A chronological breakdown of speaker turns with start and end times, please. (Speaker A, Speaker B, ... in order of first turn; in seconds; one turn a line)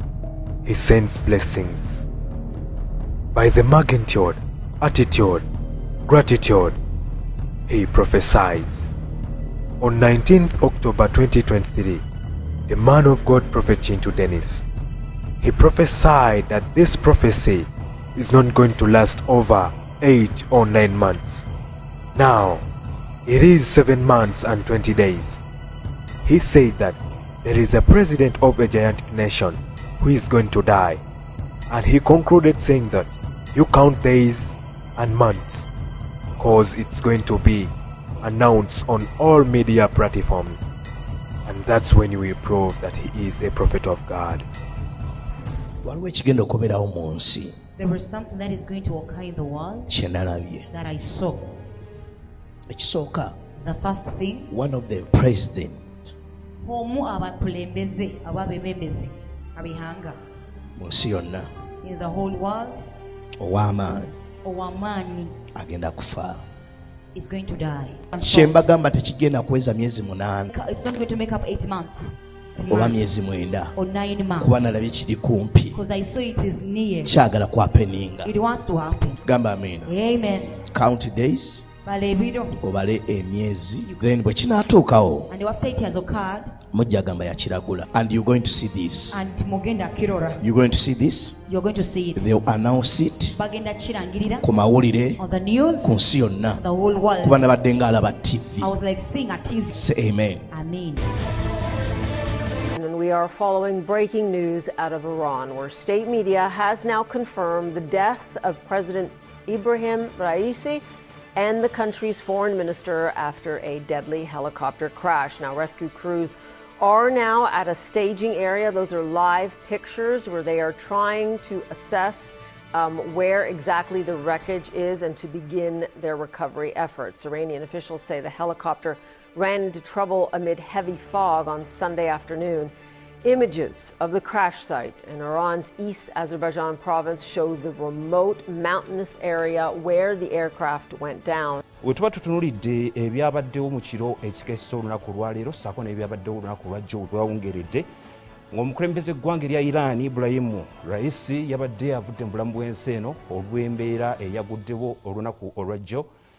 Speaker A: 0.6-2.0
Speaker A: 3.3-5.4
Speaker A: 6.1-6.8
Speaker A: 7.7-8.9
Speaker A: 9.8-12.0
Speaker A: 12.7-14.6
Speaker A: 15.4-21.5
Speaker A: 22.1-22.6
Speaker A: 23.2-25.4
Speaker A: 26.2-31.0
Speaker A: 31.7-35.7
Speaker A: 36.4-40.7
Speaker A: 41.4-44.5
Speaker B: 45.8-47.6
Speaker C: 47.8-49.9
Speaker B: 49.9-50.7
Speaker C: 50.7-51.5
Speaker B: 52.7-53.4
Speaker C: 53.6-54.5
Speaker B: 54.5-56.1
Speaker C: 56.6-60.1
Speaker B: 60.8-61.5
Speaker C: 61.8-62.8
Speaker B: 63.4-64.1
Speaker C: 64.4-65.3
Speaker B: 65.5-66.4
Speaker C: 67.1-68.6
Speaker B: 68.2-70.5
Speaker C: 70.5-73.0
Speaker B: 72.7-73.7
Speaker C: 73.7-74.6
Speaker B: 74.4-75.8
Speaker C: 75.7-77.1
Speaker B: 77.0-78.3
Speaker C: 78.2-79.2
Speaker B: 79.2-79.9
Speaker C: 79.8-80.6
Speaker B: 80.6-81.7
Speaker C: 81.8-82.6
Speaker B: 82.5-85.3
Speaker C: 85.3-86.5
Speaker B: 86.7-89.2
Speaker C: 89.1-90.4
Speaker B: 90.4-91.4
Speaker C: 91.5-92.2
Speaker B: 92.1-93.4
Speaker C: 93.3-94.5
Speaker B: 94.4-95.2
Speaker C: 95.2-96.0
Speaker B: 95.8-96.6
Speaker C: 96.6-97.5
Speaker B: 97.2-98.7
Speaker C: 98.6-99.8
Speaker B: 99.7-100.5
Speaker C: 100.5-101.0
Speaker D: 102.8-110.8
Speaker D: 111.3-132.7
Speaker D: 133.2-141.6
Speaker E: 141.8-147.8
Speaker E: 148.5-156.1